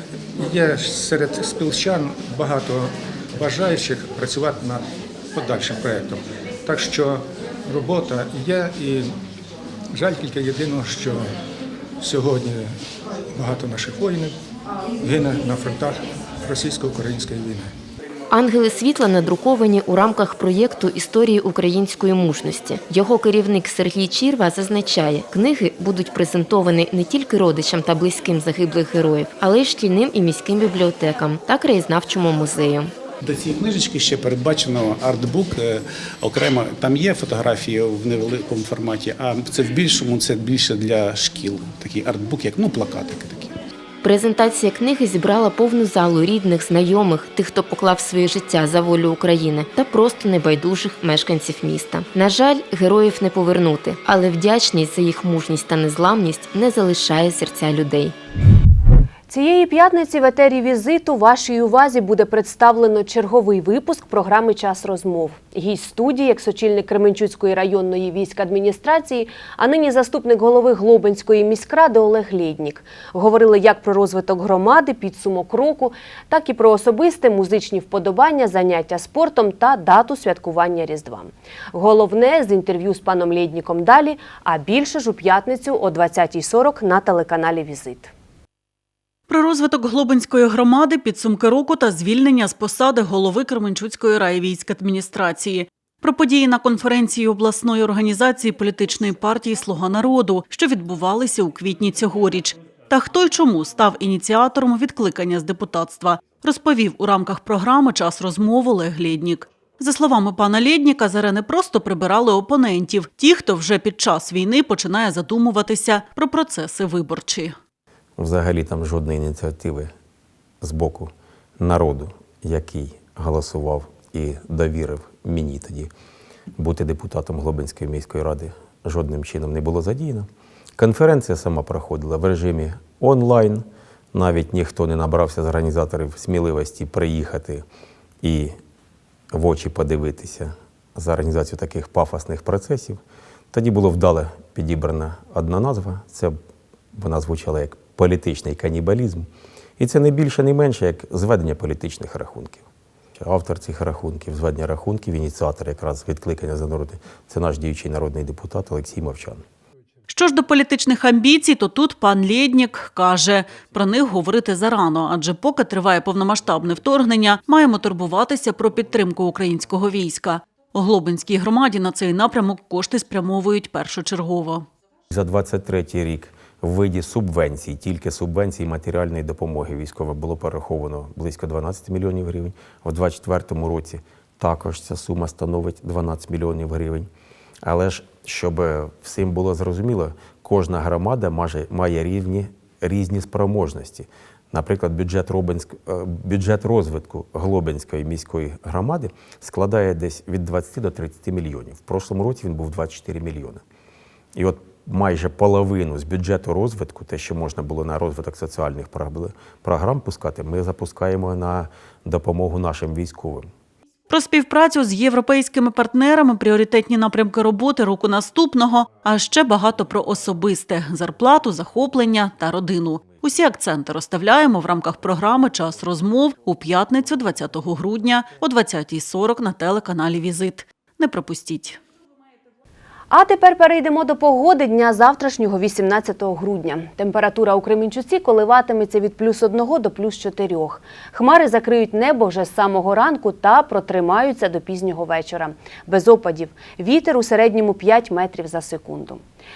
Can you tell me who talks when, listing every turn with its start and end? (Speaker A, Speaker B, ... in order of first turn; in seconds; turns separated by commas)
Speaker A: 0.4-4.8, Speaker A: 5.3-9.1, Speaker A: 9.9-11.2, Speaker A: 12.0-12.7, Speaker A: 13.3-14.3, Speaker A: 15.0-17.7, Speaker B: 18.3-32.9, Speaker C: 33.3-43.5, Speaker B: 44.0-58.1, Speaker D: 59.3-88.1, Speaker E: 89.3-117.5, Speaker F: 118.2-119.9, Speaker F: 120.6-125.9, Speaker F: 126.6-137.6, Speaker F: 138.2-138.5, Speaker F: 139.3-143.0, Speaker F: 143.5-146.4, Speaker F: 147.0-152.6, Speaker F: 153.2-159.4, Speaker E: 160.1-174.7, Speaker F: 175.1-187.1, Speaker F: 187.6-203.6, Speaker F: 204.3-213.5, Speaker E: 214.1-231.8, Speaker D: 233.1-249.2